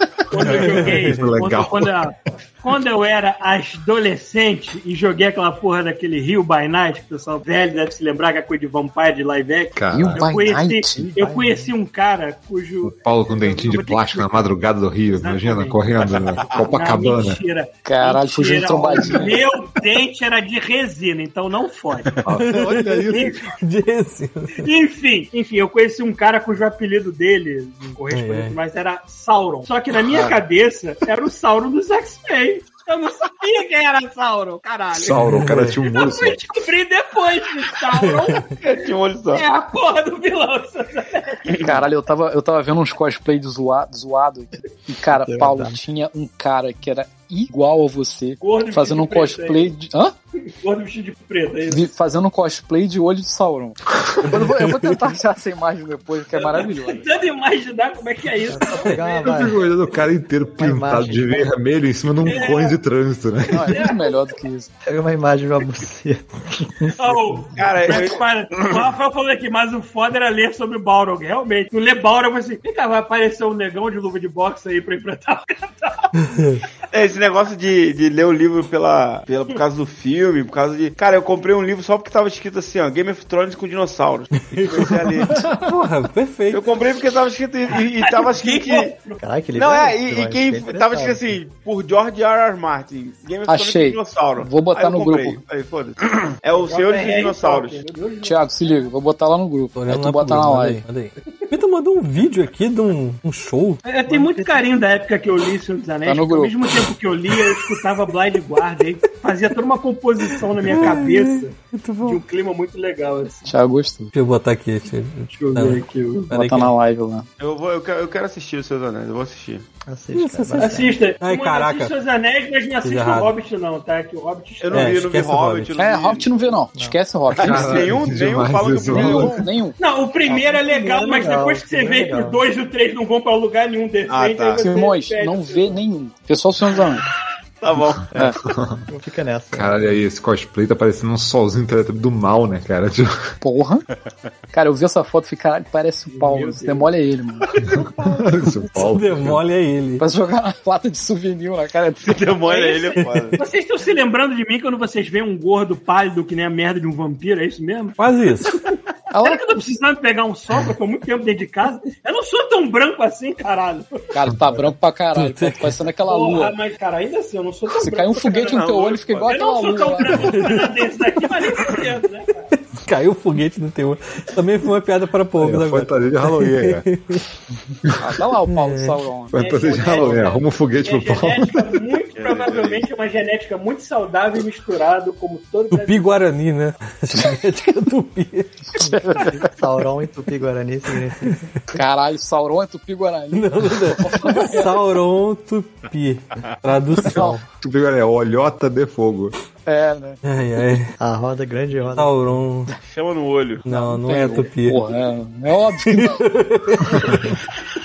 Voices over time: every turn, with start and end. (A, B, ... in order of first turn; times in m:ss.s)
0:00.3-0:14.5 A
0:00.4-0:02.1 B
0:00.4-0:01.2 C
0:09.8-0:10.4 B
0:09.9-0:11.1 D
0:10.9-0:11.7 E
0:12.8-0:17.4 B
0:15.1-0:22.2 A
0:16.0-0:16.7 F
0:17.8-0:19.5 D
0:22.2-0:23.5 B
0:22.3-0:24.7 C
0:24.6-0:38.8 A
0:28.1-0:28.6 C
0:30.1-0:30.4 D
0:34.9-0:36.4 B
0:35.2-0:35.7 C
0:38.0-0:38.4 C
0:38.6-0:39.4 F
0:39.3-0:41.6 A
0:41.5-0:41.8 F
0:41.6-0:50.1 D
0:45.1-0:45.8 E
0:48.4-0:49.7 A
0:50.4-0:51.9 A
0:51.7-0:57.1 D
0:54.2-0:55.0 C
0:56.3-0:59.5 A
0:58.4-0:59.6 E
0:59.2-1:03.7 B
1:00.6-1:01.5 E
1:02.2-1:02.8 A
1:03.5-1:04.7 D
1:03.5-1:04.4 A
1:04.8-1:08.0 E
1:07.0-1:16.1 A
1:07.6-1:08.8 F
1:16.2-1:16.6 C
1:16.9-1:25.4 F
1:24.5-1:26.6 C
1:26.5-1:28.9 F
1:27.7-1:29.2 A
1:29.2-1:31.4 E
1:29.6-1:37.8 F
1:33.5-1:35.4 D
1:36.6-1:38.9 A
1:38.2-1:40.8 D
1:39.8-1:43.8 C
1:43.8-1:53.5 A
1:44.1-1:44.7 E
1:46.1-1:46.6 D
1:50.3-1:52.2 C
1:53.4-1:54.1 D
1:54.1-1:56.7 C
1:55.3-1:56.3 A
1:56.3-1:57.3 D
1:57.4-1:59.6 F
1:59.9-2:01.0 E
2:00.1-2:01.9 C
2:00.6-2:05.1 A
2:02.8-2:03.3 C
2:04.6-2:06.5 F
2:04.7-2:05.7 C
2:05.8-2:07.9 D
2:07.4-2:09.4 F
2:07.4-2:09.4 B
2:08.8-2:09.8 D
2:09.8-2:15.8 A
2:10.3-2:12.4 E
2:14.1-2:14.7 F
2:14.6-2:17.1 D
2:17.6-2:18.4 F
2:18.0-2:18.9 B
2:18.9-2:20.0 E
2:19.5-2:23.3 B
2:23.4-2:23.8 D
2:24.5-2:27.5 D
2:26.1-2:26.9 A
2:27.6-2:28.2 A
2:27.7-2:29.4 B
2:28.7-2:30.0 C
2:30.0-2:32.4 D
2:32.0-2:33.4 F
2:32.4-2:38.0 A
2:38.0-2:38.6 C
2:38.5-2:44.1 A
2:39.1-2:39.4 D
2:44.1-2:46.6 D
2:45.1-2:45.7 C
2:46.0-2:52.5 A
2:47.8-2:50.4 D
2:48.4-2:49.3 F
2:50.3-2:50.7 C
2:52.7-2:57.2 C
2:55.4-2:56.9 B
2:58.0-2:59.3 D
2:58.5-2:58.9 C
2:59.3-3:01.8 B
2:59.3-3:06.1 A
2:59.9-3:00.2 D
3:02.2-3:02.8 F
3:05.7-3:09.2 C
3:08.8-3:09.5 D
3:08.8-3:11.5 E
3:11.7-3:14.8 D
3:13.3-3:17.4 C
3:17.5-3:19.4 B
3:19.6-3:20.2 D
3:20.2-3:20.9 C
3:21.0-3:22.3 E
3:21.9-3:22.7 C
3:22.8-3:23.6 F
3:23.6-3:24.8 C
3:23.7-3:26.2 D
3:25.8-3:27.4 C